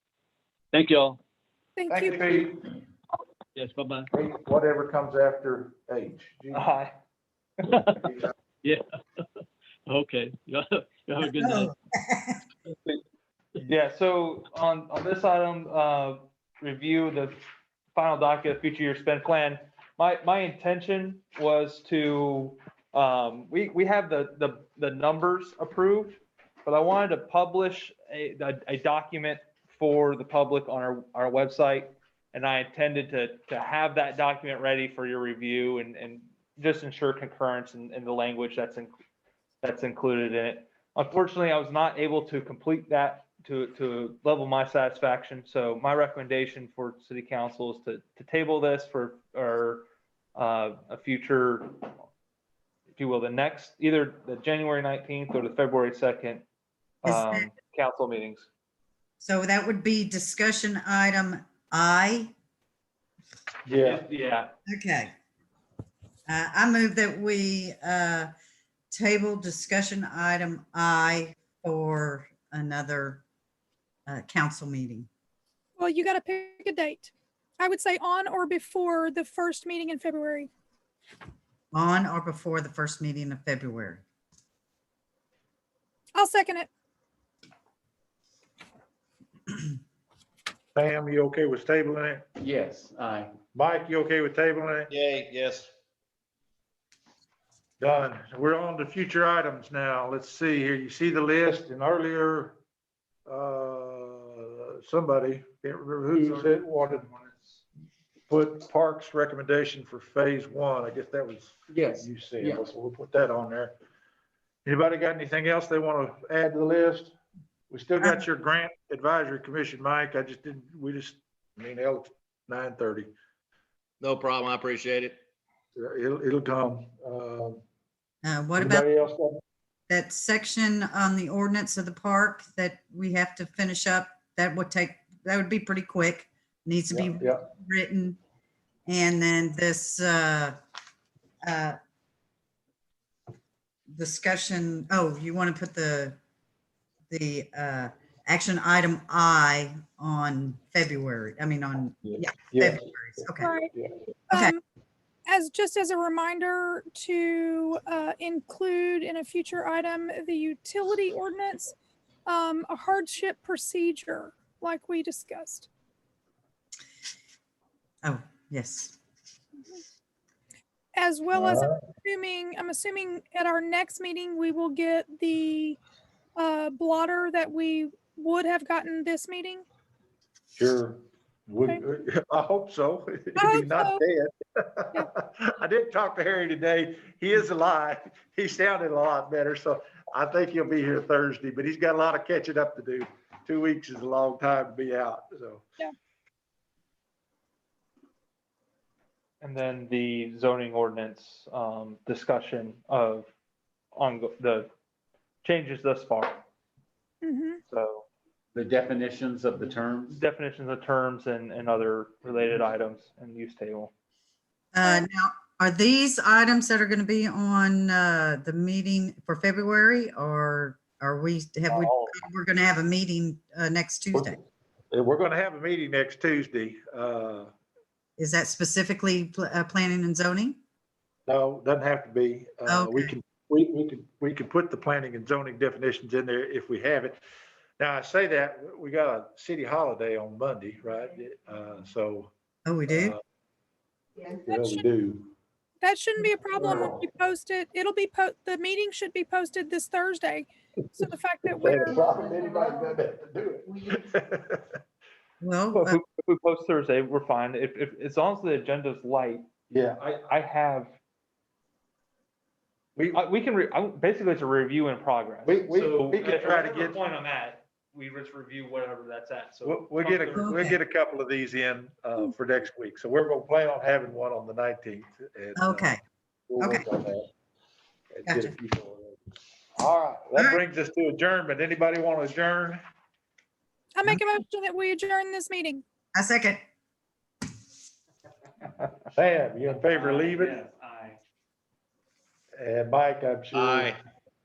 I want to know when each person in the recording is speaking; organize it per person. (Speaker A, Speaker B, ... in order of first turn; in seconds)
Speaker A: 0.7-1.2, 3.6-4.1, 7.6-8.1, 9.9-11.7
Speaker B: 1.8-2.3, 75.8-80.5, 86.2-86.7, 153.4-153.7, 154.3-154.6, 155.3-161.8, 162.3-165.7, 170.9-175.8, 176.4-179.6, 183.4-184.0, 207.2-207.6, 244.5-244.8, 245.8-252.0, 283.9-285.8
Speaker C: 1.9-2.6, 4.1-6.7, 8.0-8.3, 63.7-64.0, 90.8-92.2, 93.5-94.9, 97.8-102.6, 103.3-107.0, 108.3-113.7, 114.7-117.2, 117.7-123.1, 125.8-127.6, 128.6-129.4, 136.9-137.4, 152.0-152.9, 171.3-171.7, 180.6-195.7, 221.7-222.2, 224.9-227.5, 231.3-237.2, 237.8-242.3, 242.9-243.2, 244.4-245.3, 246.6-247.0, 251.6-254.6, 259.7-260.0, 265.4-267.0, 269.6-275.9, 276.5-277.3, 278.1-279.2, 279.8-282.8, 289.1-290.6, 292.6-294.0
Speaker D: 6.5-6.9, 13.6-17.4, 17.9-38.9, 39.6-51.9, 53.0-56.5, 57.0-58.5, 63.8-64.5, 106.1-107.6, 199.4-203.3, 203.9-204.7, 205.4-206.4, 207.7-208.1, 210.1-213.9, 255.7-259.4, 260.0-260.9, 263.1-270.6, 289.7-291.2
Speaker E: 11.3-12.4, 57.0-57.5, 59.2-62.3, 64.7-65.1, 66.3-68.3, 68.9-73.2, 74.1-75.1, 81.7-84.0, 128.2-128.9, 129.9-138.2, 138.9-140.6, 141.4-141.8, 143.9-146.2, 147.1-153.5, 168.0-169.0, 214.8-224.4, 228.2-230.6, 232.7-233.1, 242.7-243.2, 255.4-256.0, 270.4-270.8, 275.6-276.0, 278.3-278.6, 286.1-286.6
Speaker F: 92.4-93.3, 111.7-112.7, 208.5-210.2
Speaker G: 94.9-95.7, 124.0-125.2, 293.5-294.0